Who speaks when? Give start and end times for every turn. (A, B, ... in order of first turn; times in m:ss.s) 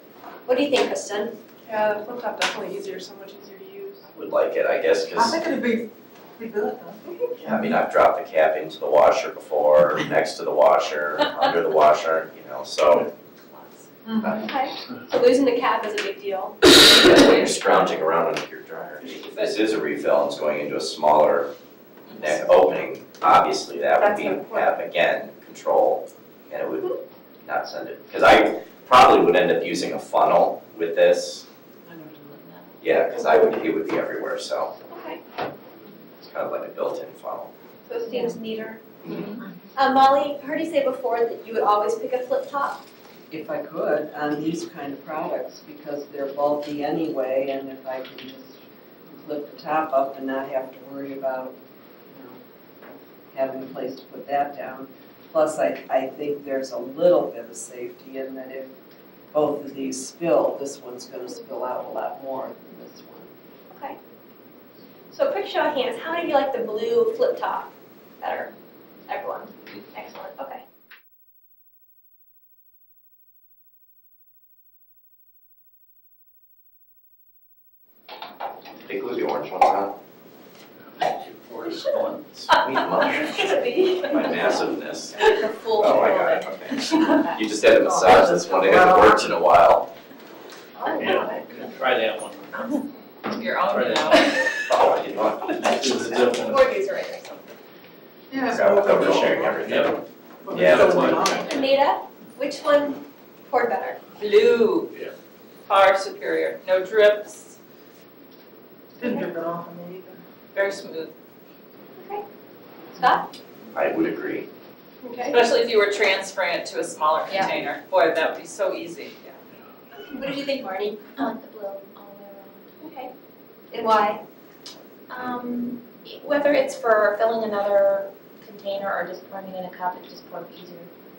0:00.5-0:01.4 A
0:01.6-0:04.0 B
0:04.1-0:05.4 C
0:05.1-0:05.9 D
0:06.4-0:07.0 D
0:07.4-0:13.1 C
0:13.5-0:13.9 E
0:14.2-0:14.5 C
0:14.2-0:16.6 A
0:16.7-0:21.5 C
0:17.1-0:18.0 E
0:19.0-0:19.6 E
0:22.1-0:22.6 E
0:22.1-0:31.4 C
0:24.0-0:24.7 B
0:32.8-0:34.7 C
0:34.9-0:35.2 A
0:36.2-0:37.5 C
0:37.9-0:42.8 A
0:43.3-0:51.6 F
0:52.1-0:52.4 F
0:53.3-0:58.7 F
0:59.3-1:03.3 F
1:03.7-1:04.0 A
1:05.1-1:08.5 A
1:09.1-1:10.6 A
1:18.8-1:19.9 C
1:21.0-1:22.2 G
1:22.3-1:23.4 C
1:23.0-1:24.6 A
1:24.0-1:25.2 C
1:25.1-1:26.4 A
1:25.7-1:29.9 C
1:28.0-1:29.2 D
1:30.9-1:31.4 D
1:31.0-1:32.8 G
1:33.3-1:34.3 E
1:33.7-1:34.2 G
1:34.6-1:36.2 C
1:35.6-1:36.7 G
1:36.5-1:37.4 A
1:38.3-1:39.7 D
1:38.4-1:40.0 C
1:39.6-1:39.9 G
1:40.5-1:41.5 D
1:40.5-1:41.3 C
1:40.5-1:41.2 G
1:41.2-1:44.0 A
1:44.2-1:44.9 E
1:45.7-1:47.6 E
1:49.0-1:50.2 D
1:49.0-1:49.3 A
1:50.5-1:51.1 E
1:52.0-1:52.2 A
1:52.9-1:53.3 A
1:53.7-1:54.5 C
1:55.0-1:55.4 A
1:55.3-1:59.2 E
1:57.3-1:57.6 H
2:00.0-2:01.1 A
2:01.2-2:02.7 H
2:02.8-2:03.1 A
2:03.7-2:04.2 A
2:05.1-2:10.9 H